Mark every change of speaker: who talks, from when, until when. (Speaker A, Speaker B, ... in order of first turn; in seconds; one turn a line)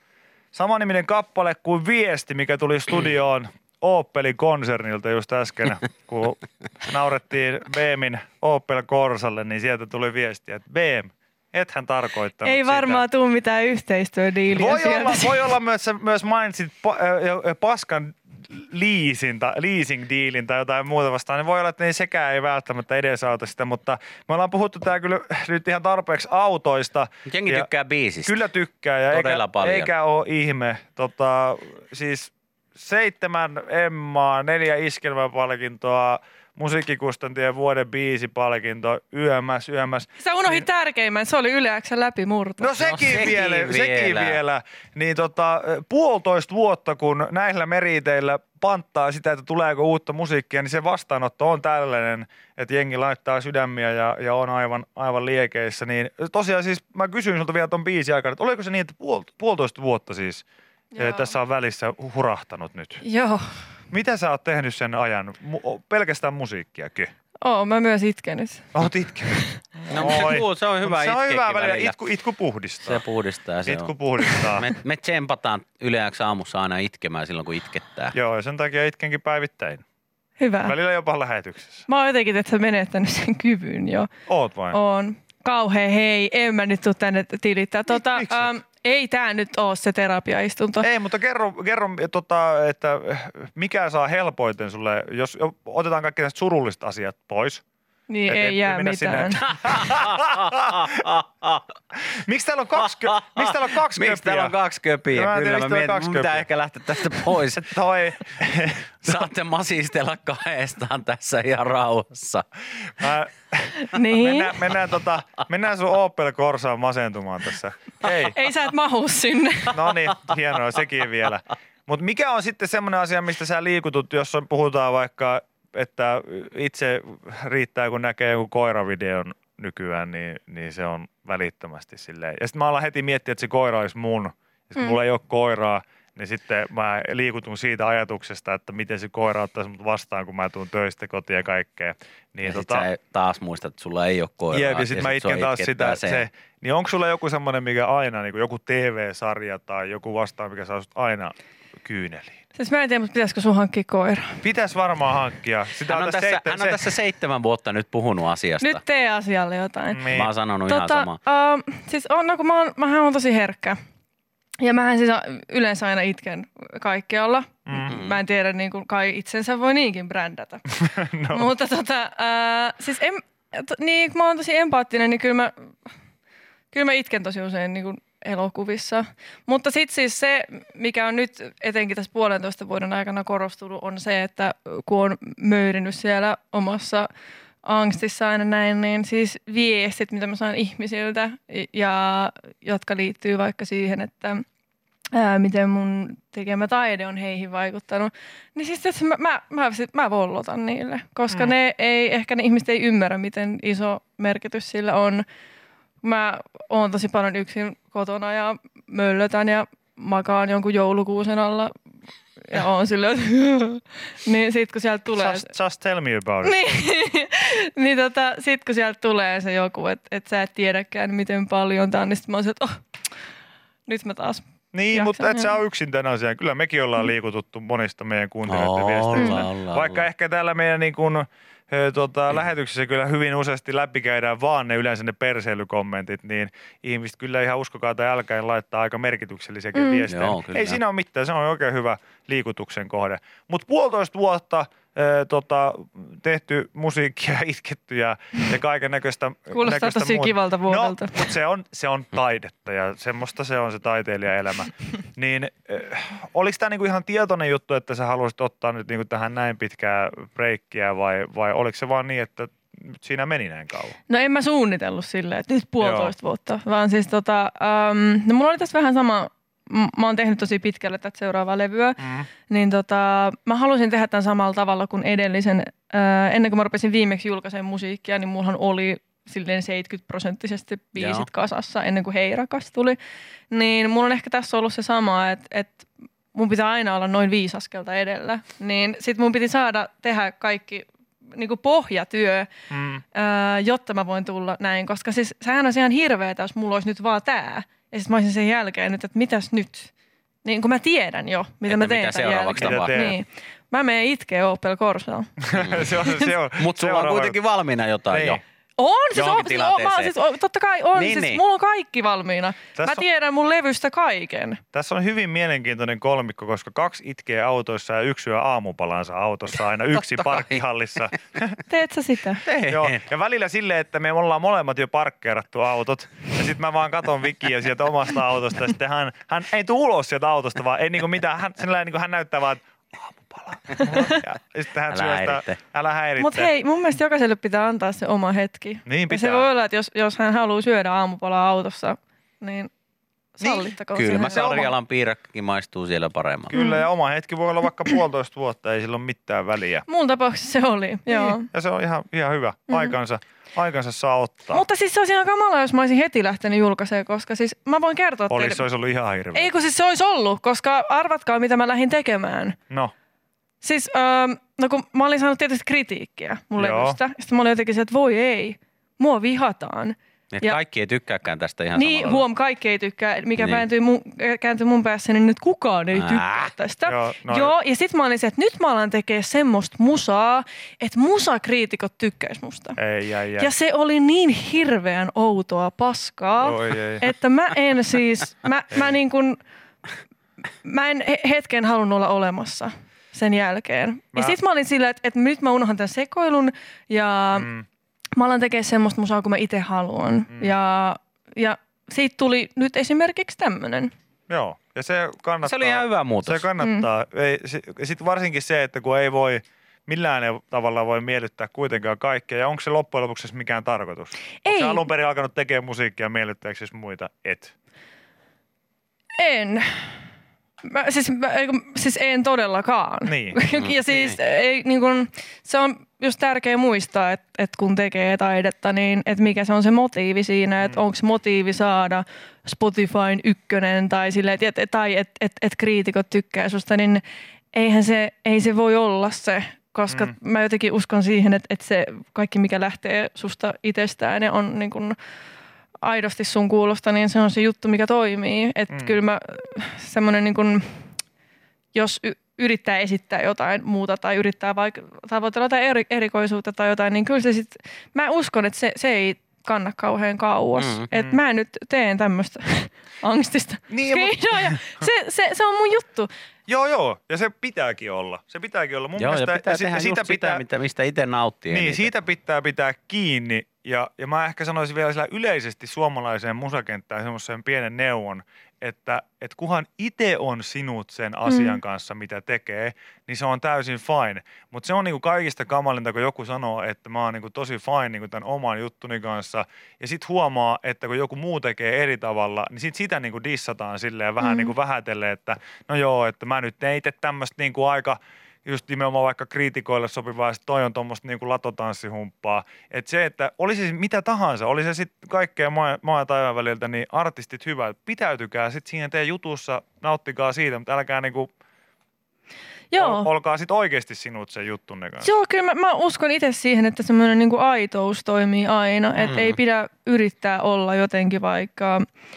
Speaker A: 0.5-13.0
Speaker B: 12.4-15.4
Speaker A: 14.5-27.7
Speaker C: 27.3-28.4
Speaker A: 28.2-40.6
Speaker C: 29.1-29.9
Speaker B: 40.2-42.8
Speaker A: 42.6-60.4
Speaker C: 42.8-44.4
Speaker B: 60.9-61.3
Speaker A: 61.0-63.0
Speaker B: 63.0-63.6
Speaker A: 63.9-67.1
Speaker B: 67.4-68.6
Speaker A: 68.7-73.0
Speaker C: 69.9-72.0
Speaker C: 72.8-78.2
Speaker A: 73.6-74.7
Speaker A: 78.1-79.8
Speaker B: 80.4-80.7
Speaker A: 80.6-81.8
Speaker B: 81.9-84.1
Speaker A: 84.3-84.8
Speaker B: 84.7-90.9
Speaker A: 87.9-88.5
Speaker A: 90.8-97.6
Speaker B: 98.1-99.4
Speaker A: 98.3-101.1
Speaker C: 99.6-101.6
Speaker A: 102.2-104.5
Speaker C: 103.0-107.7
Speaker A: 105.1-106.5
Speaker A: 107.2-109.3
Speaker C: 109.0-112.4
Speaker A: 113.0-118.3
Speaker B: 113.8-114.6
Speaker B: 118.3-119.8
Speaker A: 119.7-142.8
Speaker C: 142.4-146.2
Speaker A: 144.5-152.4
Speaker B: 152.5-154.4
Speaker A: 154.4-156.8
Speaker C: 155.9-158.8
Speaker B: 158.6-160.1
Speaker A: 159.9-160.3
Speaker C: 160.1-161.2
Speaker B: 160.7-163.8
Speaker B: 164.6-170.7
Speaker A: 167.7-167.9
Speaker C: 167.9-168.2
Speaker A: 170.8-171.5
Speaker B: 171.3-175.5
Speaker B: 176.7-187.1
Speaker B: 187.6-194.4
Speaker B: 195.1-205.2
Speaker A: 201.3-201.5
Speaker B: 206.0-211.7
Speaker B: 212.4-215.5
Speaker A: 215.2-216.6
Speaker B: 216.4-222.8
Speaker B: 223.8-225.6
Speaker A: 224.7-264.0
Speaker C: 228.5-230.0
Speaker B: 229.2-229.4
Speaker B: 239.7-240.0
Speaker C: 240.1-240.8
Speaker B: 249.5-251.3
Speaker B: 264.1-283.0
Speaker A: 265.8-266.1
Speaker A: 272.0-272.3
Speaker C: 280.9-281.3
Speaker B: 283.5-292.5
Speaker A: 292.7-293.0
Speaker B: 293.1-299.9
Speaker B: 300.4-305.3
Speaker C: 301.6-303.1
Speaker A: 302.6-303.2
Speaker A: 305.4-307.4
Speaker C: 305.5-308.4
Speaker A: 308.1-308.4
Speaker B: 308.8-314.6
Speaker C: 309.1-310.1
Speaker C: 310.9-311.4
Speaker A: 312.8-313.0
Speaker A: 314.7-321.6
Speaker C: 320.0-320.6
Speaker B: 321.7-322.4
Speaker C: 322.4-323.0
Speaker A: 322.6-336.5
Speaker C: 334.9-335.6
Speaker B: 336.2-342.7
Speaker A: 338.9-339.5
Speaker B: 343.4-344.6
Speaker A: 343.4-344.7
Speaker C: 343.9-346.5
Speaker A: 346.5-349.9
Speaker B: 346.5-346.9
Speaker B: 349.9-351.5
Speaker A: 351.1-354.6
Speaker B: 352.7-352.9
Speaker B: 354.5-358.6
Speaker A: 358.3-359.5
Speaker B: 359.3-362.6
Speaker B: 363.6-370.6
Speaker A: 366.6-367.0
Speaker C: 370.3-372.2
Speaker B: 371.7-382.8
Speaker C: 373.3-373.6
Speaker C: 375.9-376.5
Speaker A: 376.9-377.5
Speaker A: 382.8-383.5
Speaker B: 383.4-389.4
Speaker A: 386.4-387.1
Speaker B: 390.6-397.5
Speaker A: 397.3-397.6
Speaker B: 398.1-403.9
Speaker A: 400.3-400.5
Speaker A: 404.3-417.5
Speaker C: 405.4-406.4
Speaker B: 406.6-406.9
Speaker B: 414.4-414.8
Speaker B: 419.2-419.9
Speaker B: 420.6-445.0
Speaker A: 423.0-423.4
Speaker C: 423.6-424.2
Speaker B: 445.8-450.8
Speaker A: 448.7-449.0
Speaker B: 451.7-466.1
Speaker C: 460.6-460.9
Speaker A: 460.9-461.2
Speaker A: 463.7-464.9
Speaker A: 466.5-470.4
Speaker C: 469.0-471.9
Speaker A: 471.5-511.3
Speaker B: 481.3-481.6
Speaker B: 494.2-494.5
Speaker B: 512.7-513.1
Speaker A: 512.8-515.1
Speaker B: 515.0-521.8
Speaker C: 519.0-519.4